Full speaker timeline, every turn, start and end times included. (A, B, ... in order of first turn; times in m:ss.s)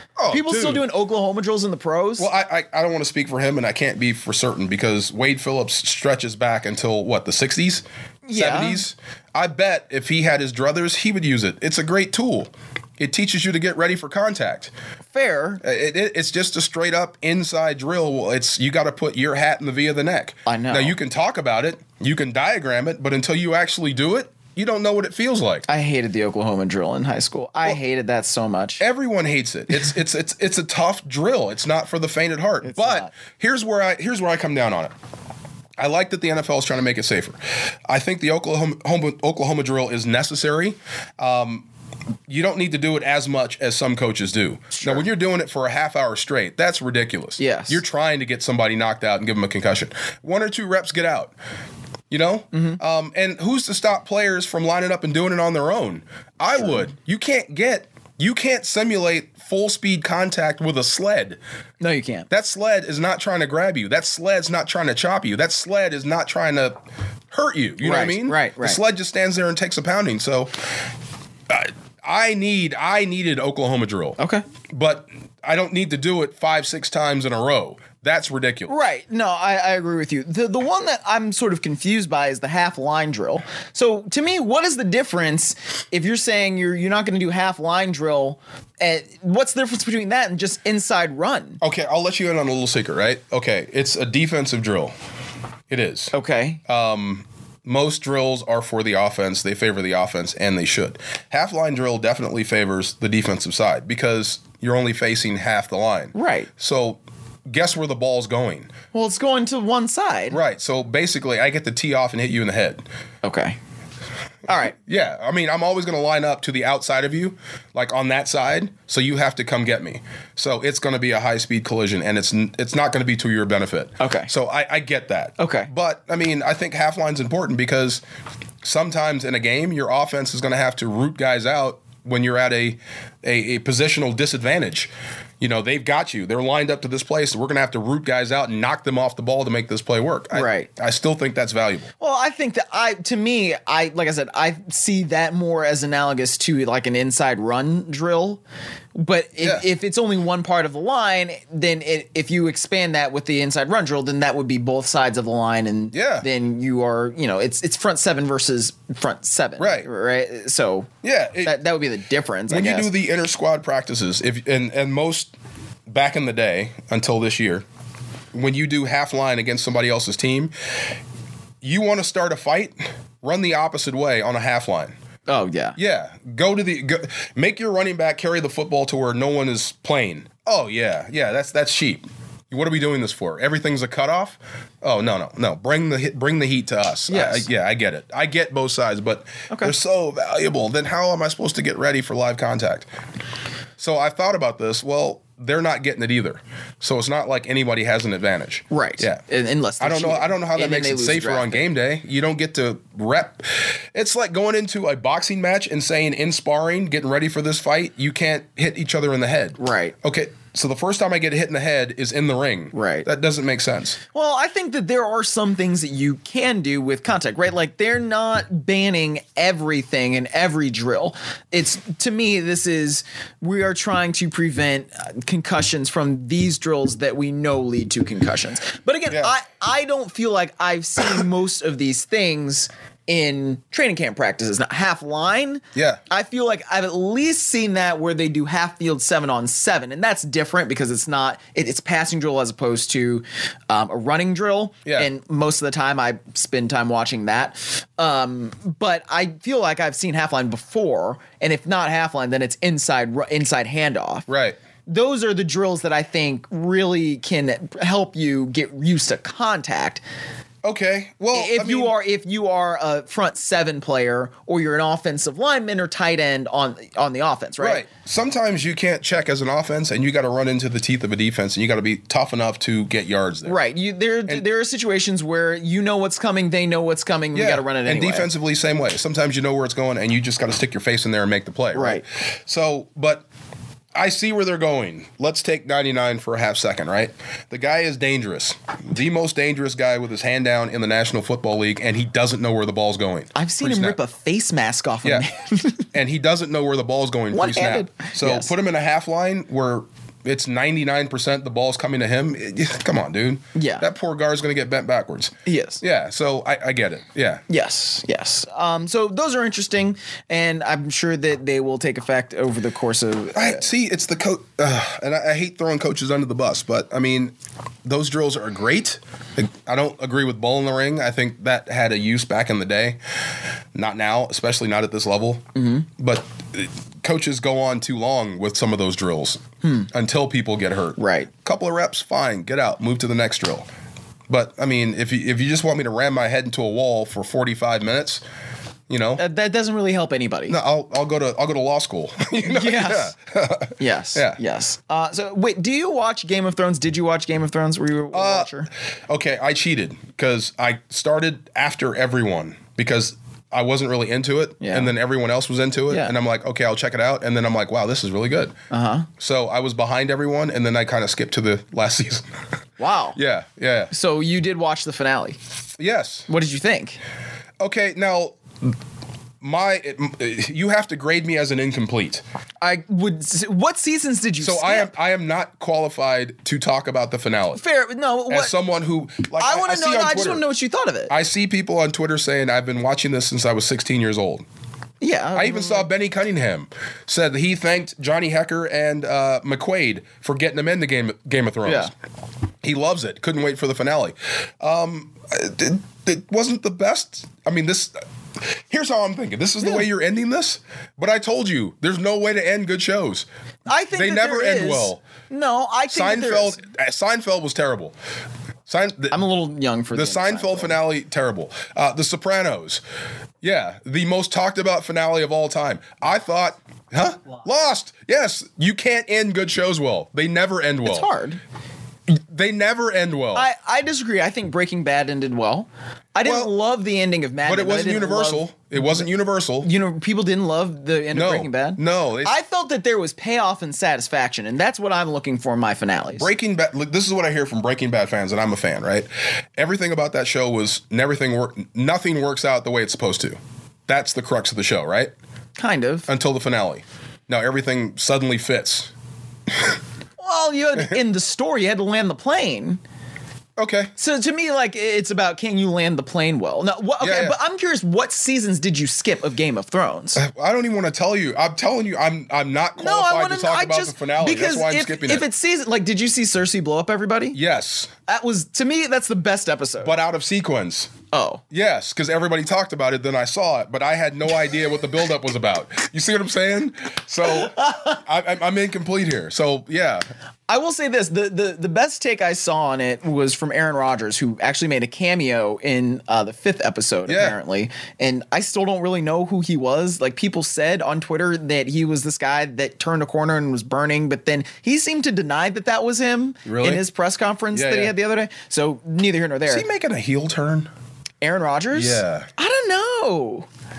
0:00.2-0:00.8 A
0:00.3-0:02.3 B
0:02.2-0:14.7 A
0:08.3-0:08.8 B
0:15.1-0:15.6 B
0:15.6-0:25.7 A
0:20.4-0:21.0 B
0:25.7-0:28.8 B
0:28.8-0:34.9 A
0:32.6-0:33.1 B
0:35.8-0:41.7 A
0:42.3-0:51.3 A
0:44.7-0:45.0 B
0:47.4-0:47.8 B
0:52.1-1:01.4 A
0:52.5-0:52.8 B
1:01.8-1:02.3 B
1:02.3-1:06.8 A
1:07.3-1:10.5 A
1:07.8-1:08.8 B
1:11.5-1:14.2 A
1:14.2-1:14.4 B
1:14.7-1:18.7 A
1:18.7-1:31.6 B
1:31.6-1:34.9 A
1:35.7-1:36.1 A
1:36.1-1:36.6 B
1:36.7-1:48.7 A
1:46.1-1:46.5 B
1:48.9-1:50.4 B
1:50.3-1:52.8 A
1:53.2-1:53.6 B
1:54.5-1:54.7 B
1:54.6-2:08.0 A
2:04.0-2:04.3 B
2:05.4-2:05.7 B
2:08.6-2:21.9 A
2:20.3-2:20.7 B
2:22.0-2:28.4 B
2:29.0-2:40.9 B
2:29.4-2:29.7 A
2:35.9-2:36.3 A
2:39.6-2:39.9 A
2:41.0-2:41.6 A
2:41.4-2:42.9 B
2:42.5-2:45.3 A
2:45.9-2:47.6 A
2:48.3-2:50.5 A
2:51.6-2:55.0 A
2:55.3-2:55.8 B
2:55.8-3:12.9 A
3:07.1-3:07.4 B
3:13.8-3:19.2 A
3:18.7-3:21.6 B
3:19.8-3:34.0 A
3:29.6-3:30.0 B
3:32.7-3:33.1 B
3:34.1-4:14.3 B
3:55.7-3:56.0 A
4:14.3-4:14.6 A
4:14.9-4:20.0 B
4:20.6-4:21.9 A
4:21.3-4:27.8 B
4:27.6-4:33.6 A
4:33.4-4:38.3 B
4:37.3-4:43.2 A
4:41.7-4:42.0 B
4:44.0-4:54.0 A
4:53.3-4:55.9 B
4:55.9-5:07.4 A
4:57.3-4:58.5 B
5:03.6-5:03.9 B
5:05.4-5:05.8 B
5:07.5-5:13.7 B
5:13.3-5:17.3 A
5:17.8-5:23.0 A
5:23.7-5:33.7 A
5:25.6-5:25.9 B
5:29.6-5:29.9 B
5:31.0-5:31.3 B
5:34.3-5:38.2 A
5:38.9-5:39.2 A
5:39.2-5:40.6 B
5:40.5-5:44.4 A
5:42.4-5:43.1 B
5:43.8-5:48.7 B
5:48.1-5:48.5 A
5:49.1-5:58.6 A
5:54.6-5:54.9 B
5:58.7-5:59.1 B
5:59.2-6:02.3 A
6:02.8-6:03.2 B
6:03.1-6:03.9 A
6:03.9-6:05.4 B
6:05.8-6:06.3 A
6:06.3-6:07.0 B
6:07.6-6:08.8 A
6:09.4-6:12.2 A
6:12.6-6:14.9 B
6:14.4-6:17.6 A
6:17.6-6:18.6 B
6:18.3-6:20.4 A
6:19.4-6:21.1 B
6:21.1-6:24.4 A
6:25.0-6:25.9 B
6:25.3-6:31.9 A
6:31.6-6:31.9 B
6:32.6-6:37.9 A
6:38.7-6:43.3 A
6:43.7-6:46.6 B
6:43.9-6:45.0 A
6:45.9-6:47.9 A
6:48.7-6:49.2 A
6:49.1-6:50.8 B
6:49.9-6:52.8 A
6:53.4-7:01.1 A
7:00.8-7:01.4 B
7:02.1-7:03.5 A
7:03.3-7:09.1 B
7:06.2-7:06.5 A
7:07.4-7:09.7 A
7:09.6-7:16.3 B
7:11.1-7:12.3 A
7:16.2-7:25.1 A
7:25.6-7:26.1 B
7:26.1-7:28.9 A
7:29.5-7:29.8 A
7:30.2-7:32.8 B
7:33.6-7:33.9 A
7:34.0-7:40.2 B
7:37.0-7:37.4 A
7:40.2-7:45.2 A
7:42.8-7:47.4 B
7:47.3-7:47.9 A
7:48.0-7:50.0 B
7:49.8-7:50.9 A
7:51.1-7:51.4 B
7:51.5-8:00.0 A
7:57.3-7:58.0 B
8:00.5-8:19.6 B
8:07.1-8:07.4 A
8:16.4-8:16.8 A
8:17.5-8:17.9 A
8:19.5-8:20.7 A
8:21.2-8:23.4 B
8:21.7-8:22.3 A